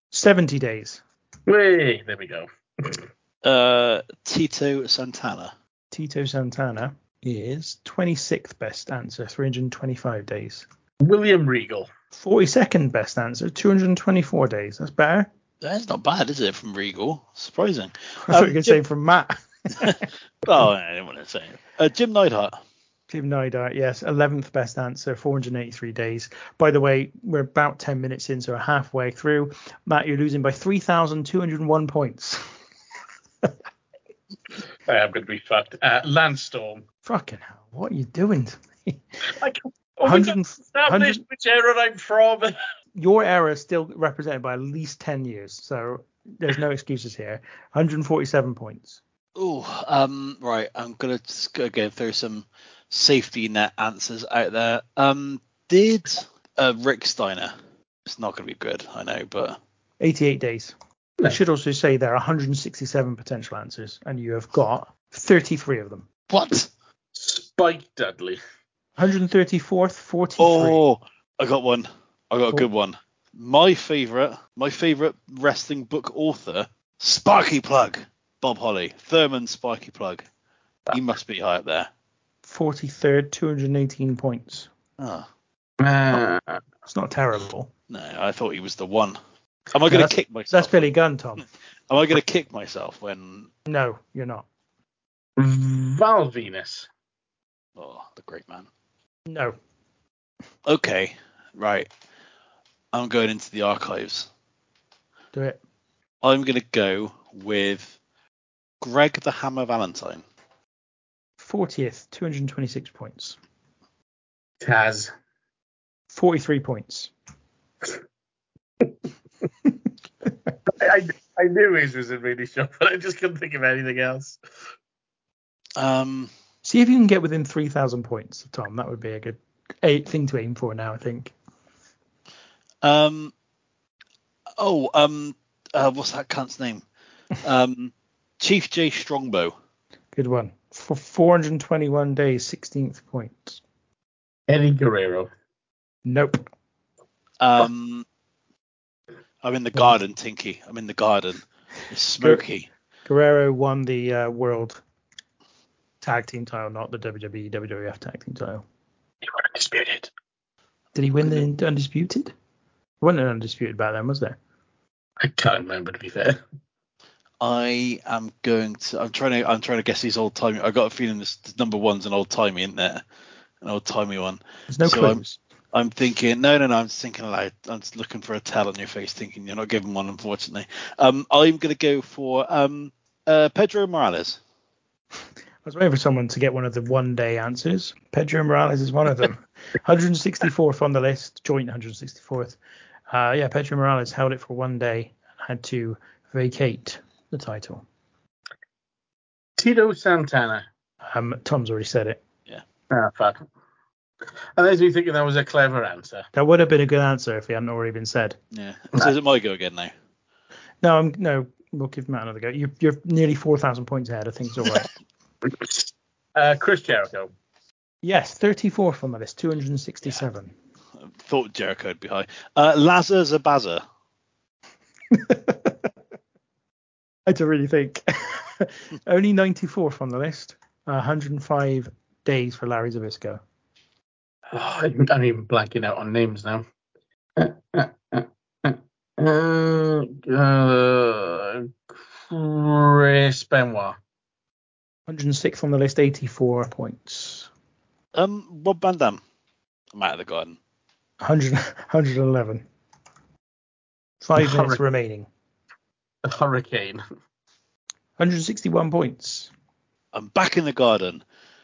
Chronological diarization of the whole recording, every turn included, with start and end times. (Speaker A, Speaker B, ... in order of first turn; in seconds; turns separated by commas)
Speaker A: 0.1-1.0, Speaker B: 1.5-3.0, Speaker C: 3.4-5.5, Speaker A: 5.9-10.7, Speaker B: 11.0-11.9, Speaker A: 12.1-15.3, Speaker C: 15.6-18.8, Speaker A: 18.2-20.0, Speaker C: 19.8-22.6, Speaker A: 23.1-32.5, Speaker B: 34.9-36.8, Speaker A: 37.0-39.0, Speaker B: 39.3-42.5, Speaker A: 40.0-41.2, Speaker A: 43.0-49.0, Speaker C: 49.4-57.5, Speaker C: 58.1-59.6, Speaker A: 60.0-66.1, Speaker C: 66.3-66.7, Speaker B: 67.2-68.4, Speaker A: 69.0-70.8, Speaker C: 70.4-80.3, Speaker C: 80.9-81.9, Speaker A: 82.4-84.7, Speaker C: 85.0-85.3, Speaker B: 85.8-86.6, Speaker A: 86.9-87.7, Speaker C: 87.9-89.2, Speaker C: 89.7-90.9, Speaker A: 89.8-91.5, Speaker C: 91.9-93.5, Speaker A: 93.7-94.5, Speaker B: 95.4-96.9, Speaker C: 97.8-98.7, Speaker A: 99.3-99.5, Speaker C: 100.7-101.9, Speaker C: 102.9-104.3, Speaker A: 105.3-105.6, Speaker C: 106.2-108.0, Speaker C: 108.8-110.2, Speaker A: 111.4-113.4, Speaker B: 114.6-115.1, Speaker A: 116.1-117.1, Speaker B: 120.7-124.4, Speaker C: 125.8-126.3, Speaker A: 126.6-131.3, Speaker C: 132.8-133.3, Speaker C: 134.6-136.8, Speaker C: 137.4-139.5, Speaker A: 140.1-143.6, Speaker B: 144.5-145.3, Speaker A: 146.1-146.5, Speaker C: 147.4-148.1, Speaker C: 149.4-152.7, Speaker A: 153.1-154.8, Speaker A: 156.0-158.7, Speaker B: 159.2-160.1, Speaker A: 160.9-162.3, Speaker A: 163.0-164.4, Speaker B: 165.2-166.4, Speaker C: 167.4-173.0, Speaker C: 173.6-175.2, Speaker A: 174.7-175.4, Speaker C: 175.7-184.4, Speaker A: 185.6-192.6, Speaker A: 193.1-197.8, Speaker B: 199.6-200.7, Speaker A: 201.1-202.2, Speaker B: 202.9-203.4, Speaker B: 204.6-206.3, Speaker A: 206.3-208.4, Speaker C: 208.5-209.9, Speaker A: 210.8-214.9, Speaker B: 215.5-217.3, Speaker A: 218.0-220.5, Speaker C: 221.0-223.8, Speaker A: 225.1-225.8, Speaker A: 227.3-233.4, Speaker B: 234.5-236.7, Speaker B: 237.4-244.0, Speaker A: 245.1-247.5, Speaker C: 248.2-249.2, Speaker C: 249.9-250.6, Speaker A: 251.2-252.7, Speaker A: 254.2-255.3, Speaker B: 254.4-254.8, Speaker B: 256.2-257.0, Speaker A: 258.2-259.5, Speaker C: 260.1-261.2